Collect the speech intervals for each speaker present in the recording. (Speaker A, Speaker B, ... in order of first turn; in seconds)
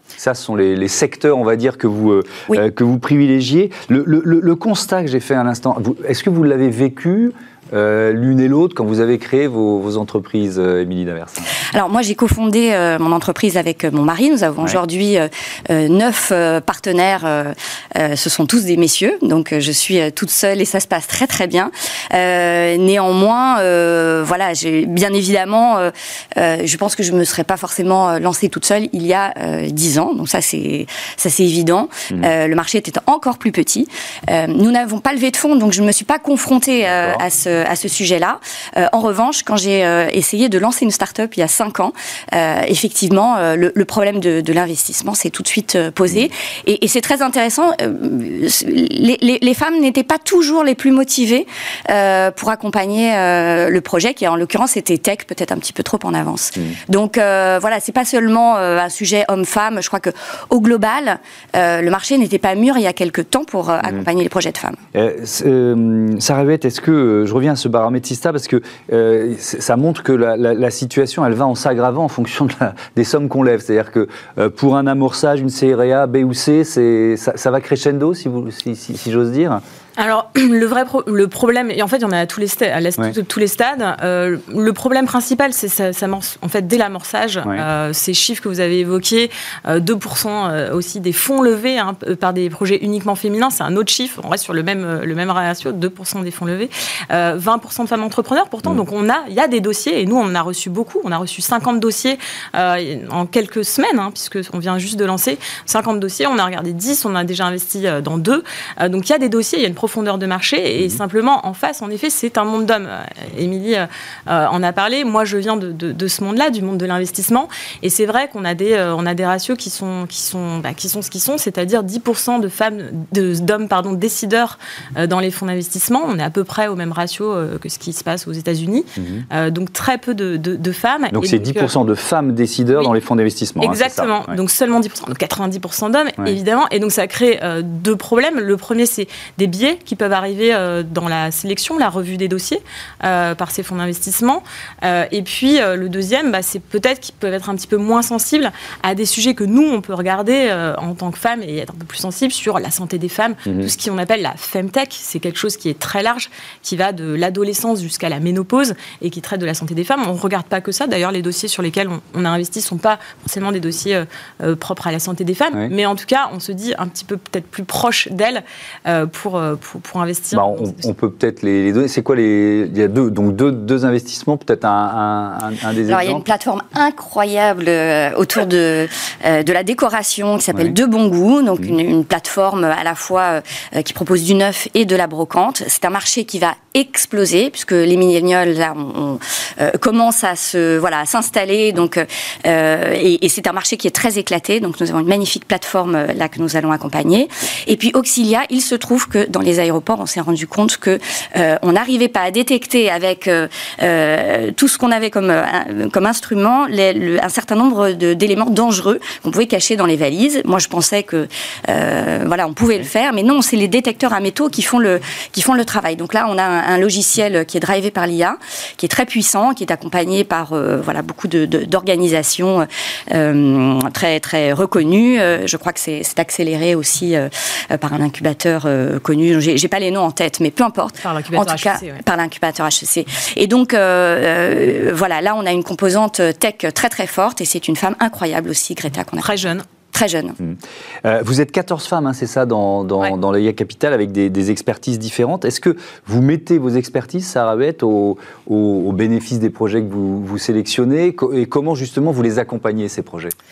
Speaker A: 0.2-11.5, 36.8-37.2, 64.9-79.6, 129.0-129.3, 131.1-134.4, 153.5-153.7, 170.3-176.2, 240.4-253.3
Speaker B: 11.7-64.8, 175.9-239.4, 239.9-240.4
Speaker C: 80.0-131.7, 133.6-170.8, 231.0-232.0, 239.2-239.7